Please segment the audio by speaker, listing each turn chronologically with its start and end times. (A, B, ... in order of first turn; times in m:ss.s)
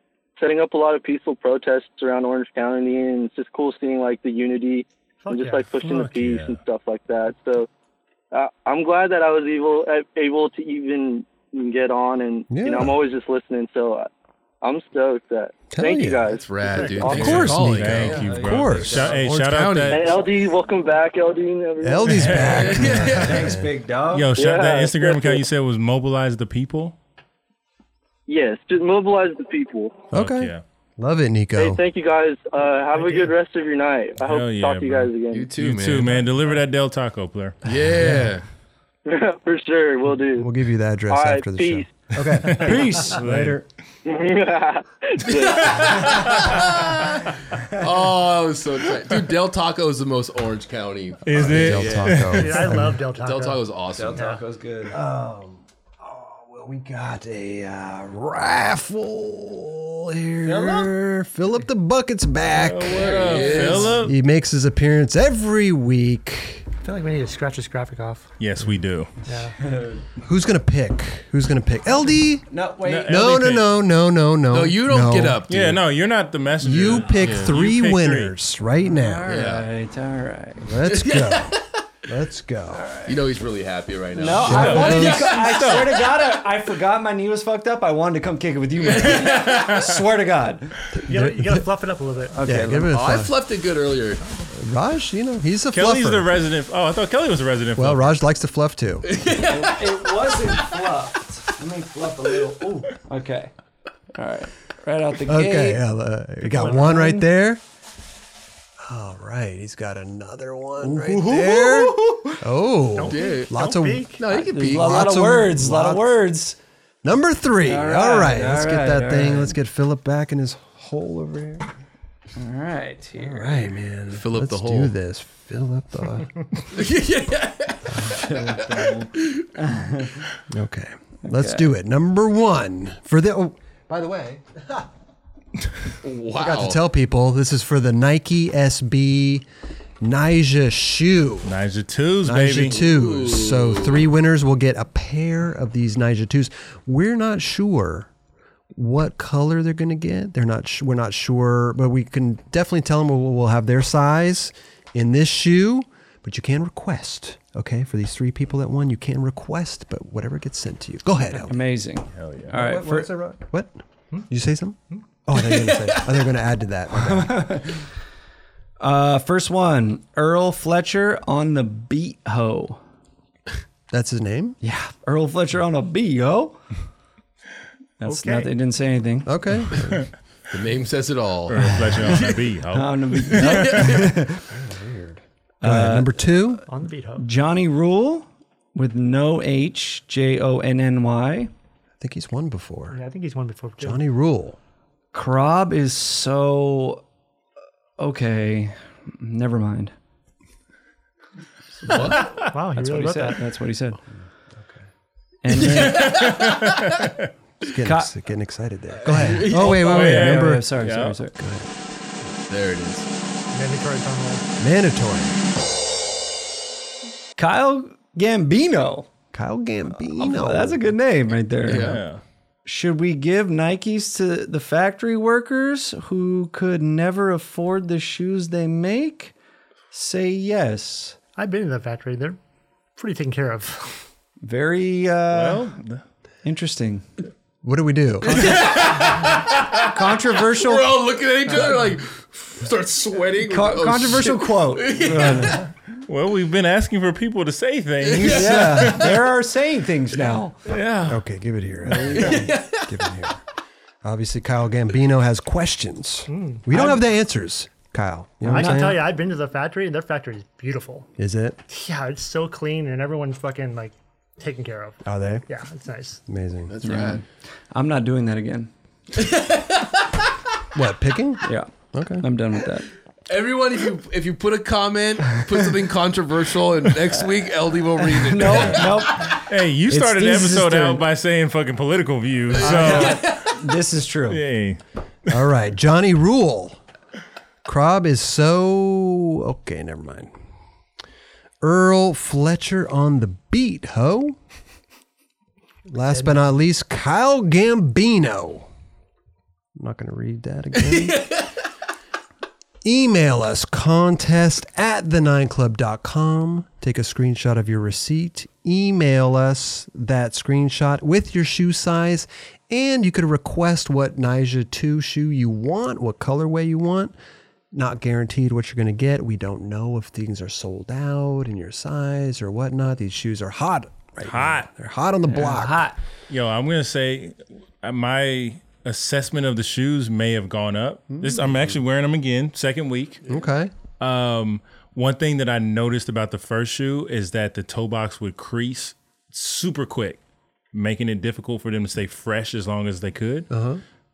0:00.4-0:07.7 A
0:05.2-0:06.0 B
0:06.1-0:06.6 C
0:08.3-0:14.1 A
0:12.5-0:13.0 D
0:14.6-0:17.5 A
0:15.7-0:16.2 D
0:16.3-0:18.3 E
0:16.6-0:17.1 B
0:17.1-0:19.1 D
0:17.1-0:20.1 C
0:18.1-0:19.2 F
0:19.0-0:20.3 E
0:19.9-0:22.4 A
0:21.8-0:23.7 D
0:22.1-0:23.0 C
0:22.4-0:23.6 E
0:23.1-0:24.3 F
0:24.1-0:27.0 C
0:24.4-0:25.4 A
0:28.3-0:30.1 A
0:30.1-0:30.6 C
0:30.1-0:31.8 D
0:31.6-0:35.5 A
0:34.2-0:37.6 C
0:35.3-0:36.2 E
0:37.6-0:38.4 E
0:37.9-0:38.3 D
0:39.0-0:40.5 A
0:40.4-0:43.1 D
0:41.1-0:41.9 A
0:42.4-0:43.6 C
0:42.5-0:43.6 F
0:44.0-0:45.9 A
0:45.2-0:52.0 E
0:51.2-0:52.7 C
0:51.3-0:53.0 D
0:52.2-0:53.6 B
0:53.1-0:54.3 E
0:53.9-0:55.0 F
0:54.1-0:54.4 B
0:54.9-1:06.6 D
1:00.4-1:00.9 F
1:02.6-1:04.2 C
1:02.8-1:04.0 F
1:02.9-1:04.0 E
1:06.8-1:08.3 B
1:08.4-1:09.1 C
1:09.2-1:09.6 B
1:09.6-1:10.0 F
1:10.2-1:12.4 D
1:12.5-1:13.3 F
1:12.8-1:13.7 C
1:13.0-1:15.4 D
1:14.5-1:15.8 E
1:15.5-1:18.3 C
1:16.6-1:19.3 D
1:17.2-1:17.5 E
1:18.8-1:20.7 F
1:19.3-1:19.7 E
1:20.6-1:22.8 D
1:20.8-1:21.7 E
1:22.7-1:23.2 F
1:23.0-1:26.0 E
1:24.1-1:30.8 F
1:24.3-1:25.3 D
1:24.4-1:26.1 C
1:28.8-1:29.8 E
1:28.9-1:29.9 C
1:30.9-1:31.6 D
1:31.0-1:32.4 B
1:32.3-1:32.9 F
1:32.4-1:33.3 D
1:32.9-1:34.2 E
1:34.5-1:36.3 D
1:35.7-1:38.2 C
1:37.8-1:39.1 D
1:39.0-1:39.9 E
1:39.4-1:43.5 F
1:44.1-1:45.8 F
1:45.3-1:47.6 D
1:46.5-1:47.1 B
1:46.7-1:47.1 F
1:48.8-1:56.1 D
1:50.8-1:52.4 F
1:52.9-1:54.2 B
1:53.1-1:53.5 E
1:54.1-1:55.2 E
1:54.3-1:56.6 F
1:57.0-2:01.7 D
1:57.6-1:59.6 F
2:02.4-2:03.7 F
2:03.2-2:06.4 D
2:04.1-2:04.9 E
2:06.7-2:09.4 E
2:07.9-2:08.2 D
2:08.0-2:10.2 F
2:10.5-2:14.9 D
2:11.2-2:11.7 F
2:16.0-2:16.8 E
2:16.3-2:19.4 D
2:20.0-2:21.5 D
2:21.4-2:22.8 C
2:22.2-2:28.1 D
2:22.6-2:24.0 E
2:28.7-2:41.5 D
2:41.5-2:43.2 F
2:42.1-2:42.5 C
2:42.5-2:43.8 D
2:44.3-2:47.6 D
2:45.3-2:46.3 E
2:47.0-2:47.8 F
2:48.8-2:52.8 F
2:53.9-2:54.6 D
2:54.6-2:56.6 F
2:58.0-2:59.3 F
2:58.0-2:58.5 B
2:59.2-3:00.1 D
3:00.5-3:02.4 E
3:01.5-3:03.9 C
3:02.7-3:04.4 F
3:03.3-3:04.1 E
3:04.5-3:06.6 D
3:05.6-3:06.2 F
3:06.7-3:07.2 B
3:07.2-3:11.5 F
3:12.0-3:13.0 D
3:12.9-3:14.0 B
3:13.8-3:14.6 D
3:15.1-3:17.0 F
3:18.0-3:19.9 F
3:21.8-3:22.4 E
3:21.9-3:22.2 F
3:22.4-3:23.4 B
3:22.7-3:24.0 F
3:25.4-3:26.2 F
3:25.5-3:27.1 E
3:25.7-3:27.3 C
3:27.6-3:30.7 D
3:27.8-3:28.1 F
3:29.1-3:29.8 E
3:29.2-3:31.4 F
3:29.6-3:31.2 C
3:31.4-3:31.7 D
3:32.4-3:33.1 E
3:33.5-3:34.4 B
3:34.6-3:35.4 D
3:37.4-3:39.1 F
3:39.3-3:40.9 D
3:40.2-3:42.0 F
3:41.6-3:42.0 E
3:41.6-3:42.2 C
3:42.6-3:49.3 F
3:49.9-3:51.2 F
3:51.4-3:52.4 B
3:53.0-3:54.0 B
3:54.4-3:55.7 F
3:55.3-3:56.0 C
3:56.4-3:57.0 F
3:57.6-3:58.6 D
3:58.2-4:05.6 E
3:59.9-4:00.9 F
4:03.4-4:05.6 F
4:06.0-4:09.2 C
4:08.0-4:09.2 E
4:08.2-4:10.6 F
4:10.6-4:11.2 C
4:11.0-4:13.4 D
4:12.1-4:12.9 E
4:14.0-4:19.1 D
4:16.3-4:16.9 B
4:18.4-4:19.0 F
4:18.4-4:21.1 B
4:21.2-4:21.6 D
4:21.7-4:26.2 B
4:25.0-4:25.4 D
4:26.3-4:26.7 D
4:26.7-4:27.2 E
4:26.8-4:28.7 F
4:29.1-4:30.1 E
4:30.7-4:32.2 D
4:31.4-4:32.9 F
4:33.3-4:39.3 E
4:38.0-4:41.0 F
4:38.5-4:43.4 C
4:42.5-4:43.6 E
4:42.6-4:44.4 F
4:44.3-4:44.8 C
4:45.3-4:46.8 D
4:47.6-4:50.3 D
4:51.6-4:54.4 D
4:55.9-4:58.7 D
4:59.8-5:01.3 D
5:00.8-5:01.5 E
5:02.8-5:17.1 D
5:17.7-5:25.9 D
5:24.2-5:24.7 C
5:25.3-5:26.0 F
5:26.3-5:33.2 C
5:33.3-5:33.7 D
5:34.0-5:40.2 C
5:40.7-5:43.5 C
5:43.5-5:43.8 D